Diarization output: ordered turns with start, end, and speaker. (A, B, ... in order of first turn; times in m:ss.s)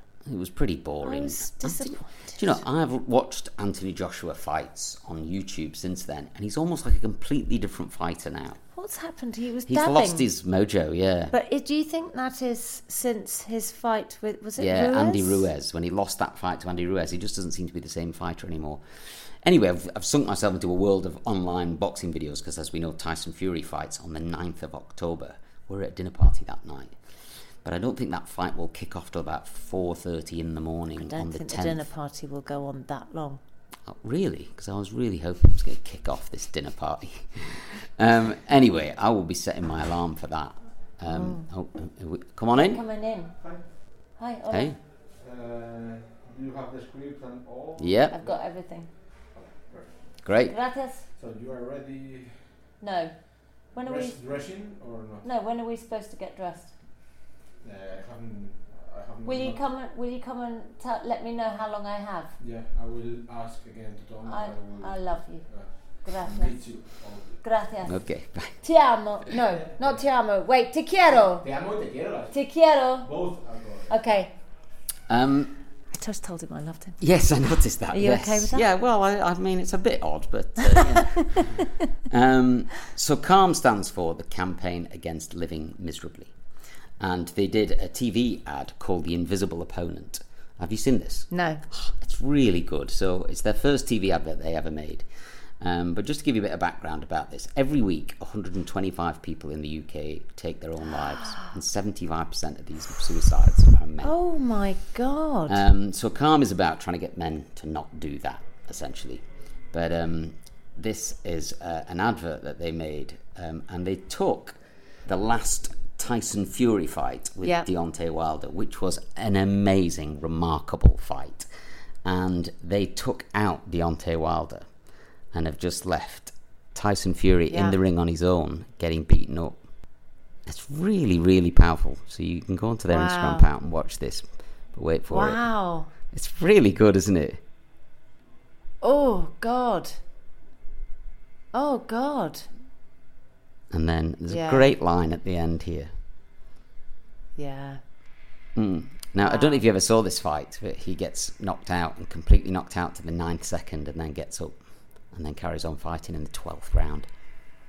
0:00.2-0:08.6 A
0:01.0-0:02.6 B
0:08.7-0:10.3 B
0:09.6-0:11.3 A
0:11.3-0:15.5 B
0:14.6-0:18.8 A
0:19.4-0:27.0 A
0:27.6-0:31.9 A
0:31.0-0:33.4 B
0:33.8-0:42.8 A
0:41.1-0:41.5 B
0:42.5-0:43.3 B
0:44.2-0:44.7 B
0:44.5-0:44.8 A
0:45.2-0:48.4 C
0:47.8-0:48.1 A
0:48.1-0:48.9 B
0:49.3-0:49.9 C
0:50.2-0:50.5 A
0:50.5-0:51.0 B
0:51.2-0:52.3 C
0:52.8-0:53.1 B
0:53.7-0:54.2 B
0:53.8-0:55.2 C
0:55.2-0:56.7 B
0:57.6-0:59.6 C
0:59.2-1:02.3 B
1:02.4-1:07.4 C
1:04.2-1:05.4 B
1:06.0-1:06.5 B
1:07.4-1:08.0 B
1:07.8-1:08.6 A
1:08.6-1:11.4 B
1:09.6-1:10.0 C
1:11.2-1:12.4 C
1:12.3-1:13.1 B
1:13.0-1:14.0 C
1:13.9-1:14.3 B
1:15.1-1:15.5 A
1:15.9-1:17.0 B
1:17.0-1:26.3 A
1:17.9-1:18.7 B
1:20.6-1:21.6 B
1:27.0-1:35.0 A
1:31.3-1:31.6 B
1:35.6-1:44.1 A
1:44.0-1:45.6 B
1:45.5-2:01.5 A
2:02.0-2:04.7 A
2:05.3-2:09.6 A
2:07.5-2:07.8 B
2:10.4-2:15.4 A
2:12.9-2:13.5 B
2:15.1-2:15.9 B
2:16.1-2:17.4 A
2:18.8-2:20.0 B
2:21.5-2:22.5 B
2:23.7-2:25.9 A
2:24.3-2:24.7 B
2:27.4-2:27.8 B
2:28.5-2:34.6 A
2:29.2-2:29.6 B
2:35.1-2:37.1 A